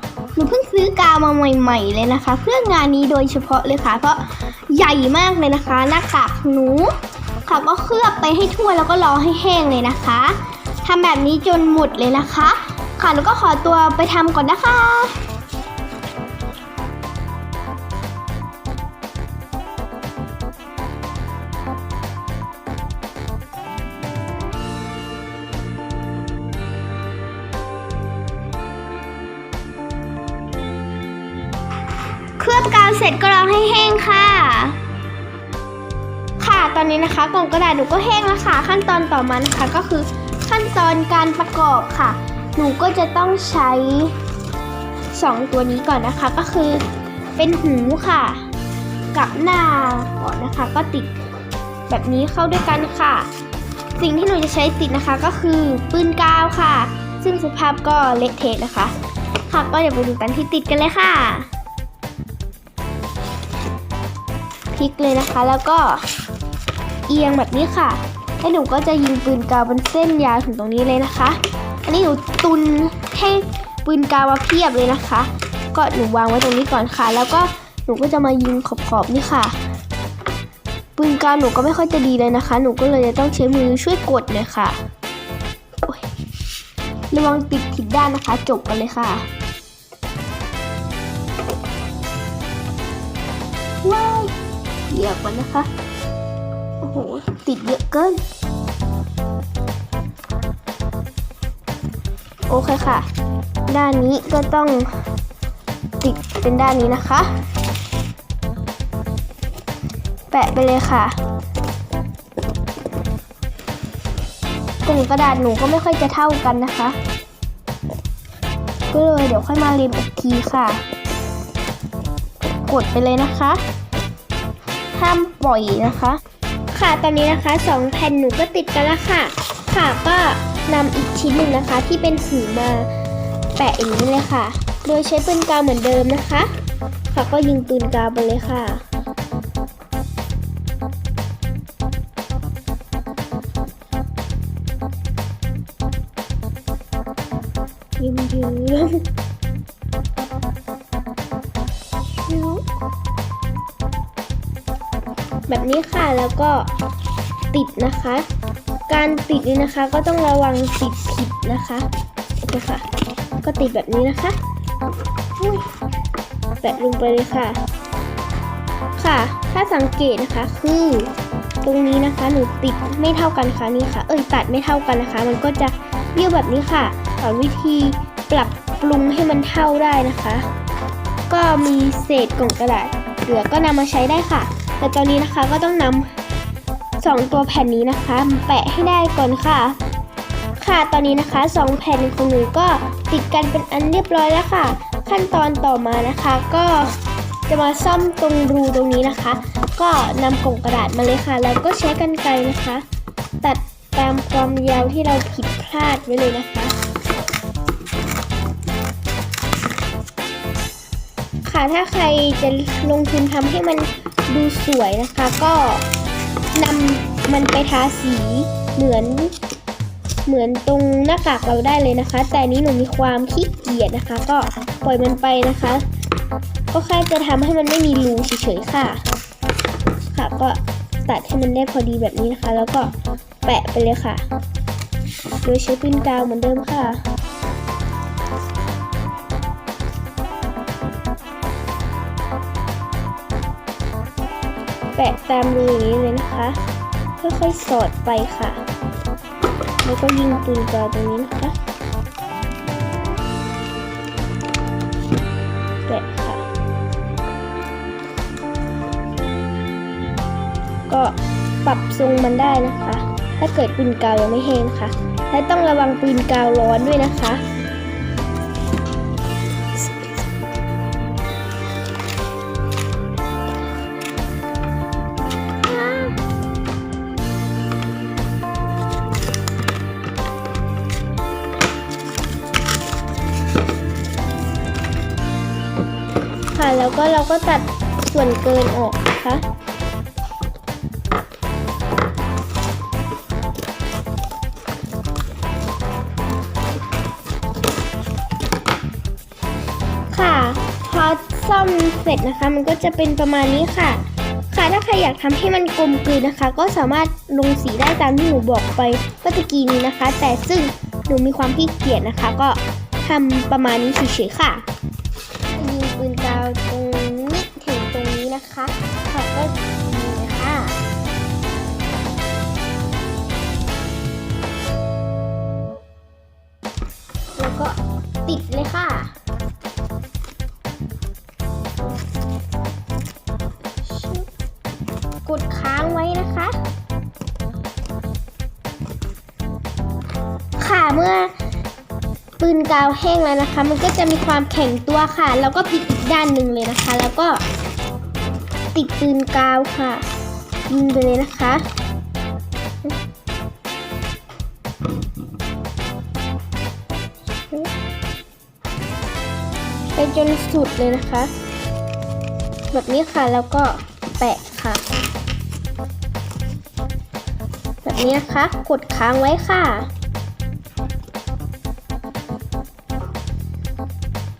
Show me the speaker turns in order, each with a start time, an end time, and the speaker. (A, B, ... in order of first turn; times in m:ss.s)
0:00.4-0:15.2 A
0:32.4-0:34.8 A
0:36.4-0:44.2 A
0:45.1-0:46.8 A
0:47.4-0:48.5 A
0:49.1-0:51.1 A
0:51.9-0:53.3 A
0:54.0-0:58.9 A
0:59.5-1:01.5 A
1:04.7-1:06.1 A
1:07.1-1:19.6 A
1:21.0-1:24.8 A
1:27.1-1:29.3 A
1:33.8-1:34.3 A
1:34.9-1:35.7 A
1:36.8-1:38.2 A
1:42.5-1:43.1 A
1:43.7-1:44.9 A
1:46.0-1:47.4 A
1:50.3-1:51.2 A
1:54.8-1:57.0 A
1:58.9-2:00.8 A
2:02.7-2:03.6 A
2:04.9-2:12.9 A
2:13.6-2:16.5 A
2:17.1-2:18.8 A
2:28.0-2:29.1 A
2:32.3-2:32.6 A
2:35.5-2:36.7 A
2:37.5-2:38.3 A
2:38.9-2:41.9 A
2:42.4-2:42.9 A
2:43.4-2:44.4 A
2:45.4-2:45.6 A
2:46.6-2:47.6 A
2:49.0-2:51.1 A
2:51.6-3:00.5 A
3:01.3-3:06.1 A
3:07.0-3:09.8 A
3:10.6-3:22.8 A
3:23.4-3:26.8 A
3:31.4-3:35.9 A
3:36.5-3:39.4 A
3:40.3-3:45.8 A
3:46.7-3:49.0 A
3:50.1-3:52.9 A
3:53.4-3:54.2 A
3:55.4-3:57.0 A
4:05.0-4:06.6 A
4:07.2-4:08.6 A
4:09.8-4:11.6 A
4:15.9-4:16.4 A
4:20.9-4:27.4 A
4:35.6-4:36.2 A
4:46.5-4:49.4 A
5:00.1-5:14.6 A
5:15.5-5:20.8 A
5:27.4-5:29.1 A
5:33.8-5:34.3 A
5:35.2-5:36.6 A
5:40.6-5:41.3 A
5:42.4-5:47.4 A
5:48.7-5:50.1 A
5:50.7-5:51.6 A
5:59.9-6:01.3 A
6:02.7-6:04.8 A
6:07.8-6:09.9 A